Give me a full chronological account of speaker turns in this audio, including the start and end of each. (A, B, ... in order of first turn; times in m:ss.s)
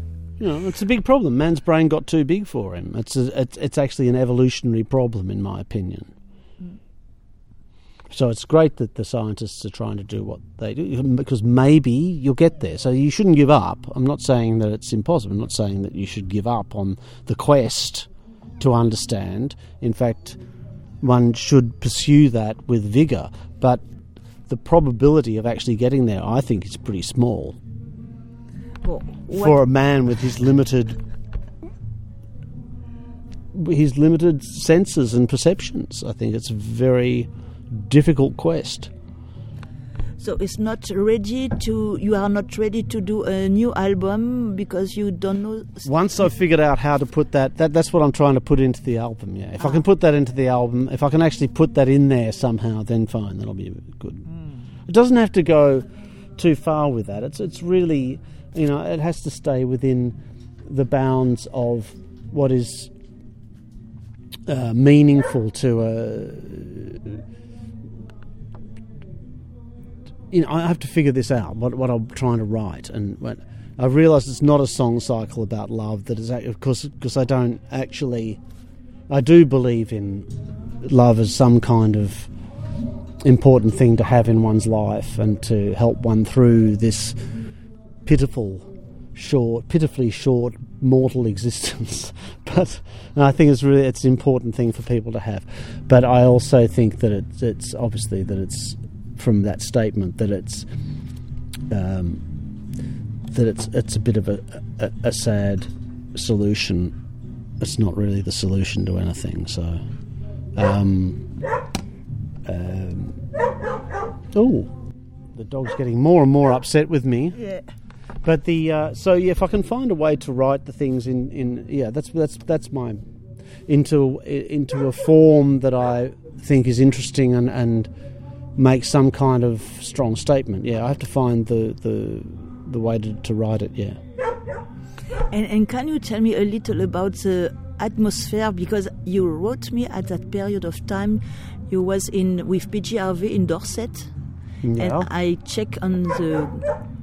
0:00.4-0:06.1 A
0:08.1-0:18.1 A
0:18.6-0:20.4 A
0:21.0-0:23.8 A
0:24.5-0:27.6 A
0:28.8-0:29.6 B
0:29.3-0:31.0 A
0:33.5-0:38.9 A
0:40.2-0:45.9 B
0:45.8-0:54.2 A
0:54.9-0:55.8 A
0:56.4-1:02.9 A
1:04.5-1:07.2 A
1:10.3-1:18.4 A
1:19.1-1:20.3 A
1:20.8-1:22.3 A
1:23.2-1:27.2 A
1:28.0-1:40.6 A
1:41.7-1:42.2 A
1:43.3-1:46.9 A
1:47.6-1:49.8 A
1:50.6-1:51.2 A
1:52.4-1:53.2 A
1:54.3-1:54.7 A
1:55.3-1:57.4 A
1:57.3-1:57.6 B
1:58.2-2:03.0 A
2:03.7-2:07.9 A
2:08.6-2:14.0 A
2:15.2-2:24.1 B
2:24.6-2:25.1 A
2:24.8-2:26.6 B